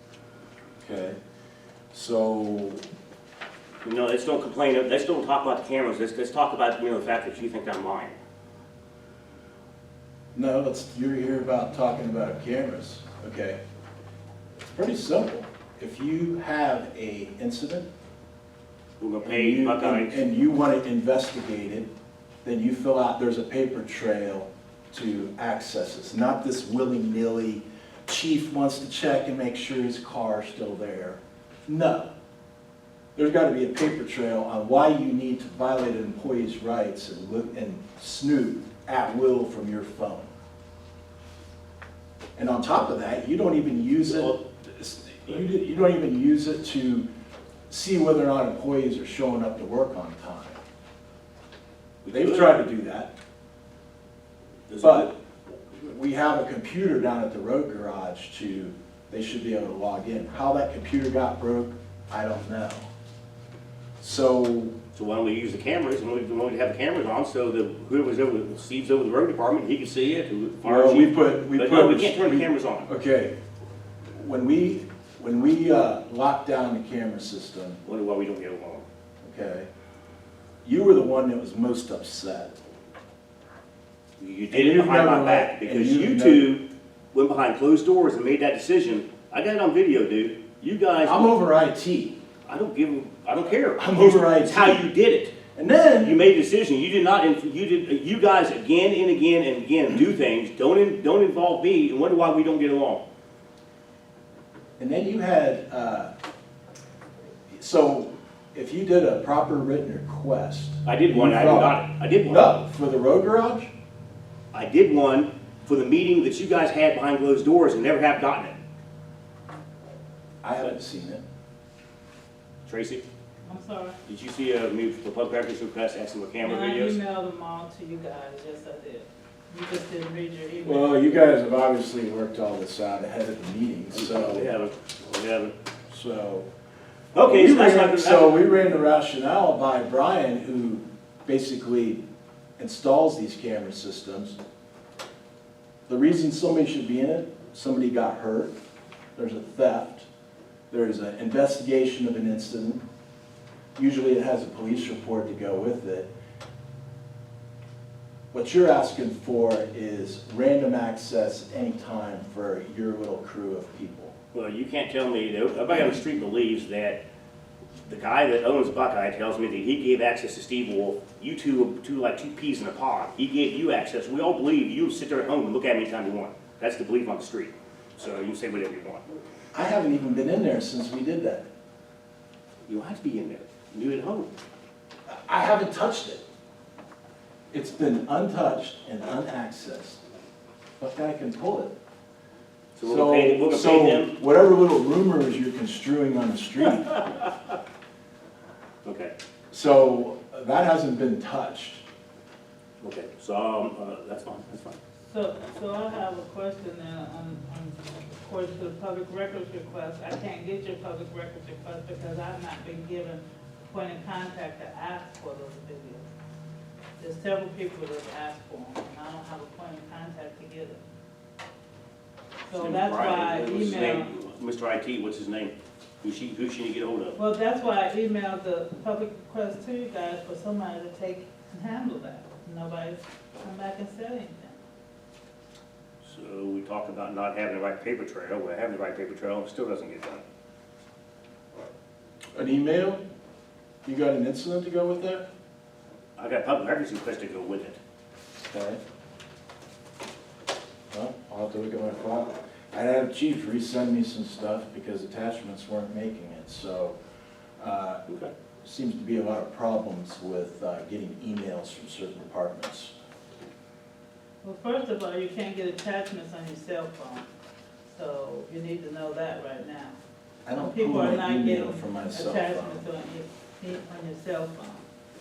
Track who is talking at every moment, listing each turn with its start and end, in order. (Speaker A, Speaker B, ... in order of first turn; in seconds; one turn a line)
Speaker A: 0.8-1.2
Speaker A: 1.9-2.8
Speaker B: 3.8-8.2
Speaker A: 10.3-13.6
Speaker A: 14.7-17.9
Speaker B: 19.0-20.2
Speaker A: 19.2-21.9
Speaker A: 22.4-32.1
Speaker A: 33.1-40.3
Speaker A: 42.4-47.1
Speaker A: 47.7-50.6
Speaker B: 52.0-52.6
Speaker A: 52.1-53.1
Speaker B: 54.7-55.1
Speaker A: 54.8-55.1
Speaker A: 55.8-62.9
Speaker A: 64.0-64.7
Speaker B: 64.9-72.9
Speaker A: 70.6-73.3
Speaker A: 74.1-77.8
Speaker B: 77.8-78.8
Speaker A: 79.2-79.7
Speaker A: 80.6-82.5
Speaker B: 84.2-91.3
Speaker A: 84.5-86.5
Speaker A: 91.0-92.2
Speaker B: 92.5-95.3
Speaker A: 93.8-94.9
Speaker A: 95.5-96.2
Speaker B: 96.0-103.0
Speaker A: 104.8-106.1
Speaker A: 107.5-113.7
Speaker B: 110.8-112.5
Speaker B: 114.5-118.6
Speaker A: 120.4-121.2
Speaker B: 122.7-123.0
Speaker C: 123.4-124.0
Speaker B: 124.0-127.0
Speaker C: 126.4-131.3
Speaker A: 130.6-134.5
Speaker B: 133.9-135.5
Speaker A: 135.9-136.5
Speaker B: 137.1-138.5
Speaker A: 137.1-142.0
Speaker A: 142.6-144.4
Speaker A: 145.9-148.5
Speaker A: 149.1-150.1
Speaker A: 150.7-152.8
Speaker A: 153.8-156.1
Speaker A: 158.3-164.1
Speaker B: 164.3-167.0
Speaker B: 167.8-179.0
Speaker A: 179.5-181.4
Speaker B: 182.7-184.3
Speaker A: 185.1-186.2
Speaker A: 187.5-190.0
Speaker A: 190.8-191.7
Speaker B: 192.7-194.2
Speaker A: 192.8-196.9
Speaker B: 196.9-197.3
Speaker B: 198.8-199.1
Speaker A: 199.5-201.8
Speaker B: 202.8-204.8
Speaker C: 205.1-216.1
Speaker C: 217.0-220.8
Speaker C: 222.4-224.1
Speaker B: 222.6-227.2
Speaker C: 227.2-234.6
Speaker B: 236.0-240.2
Speaker A: 242.3-243.0
Speaker A: 243.8-245.2
Speaker B: 246.2-247.8
Speaker A: 248.4-248.8
Speaker A: 250.9-256.9
Speaker A: 257.6-258.1
Speaker B: 258.1-258.3
Speaker A: 258.6-262.9
Speaker C: 264.4-267.3
Speaker C: 267.9-270.0
Speaker A: 270.4-272.8
Speaker C: 270.5-274.9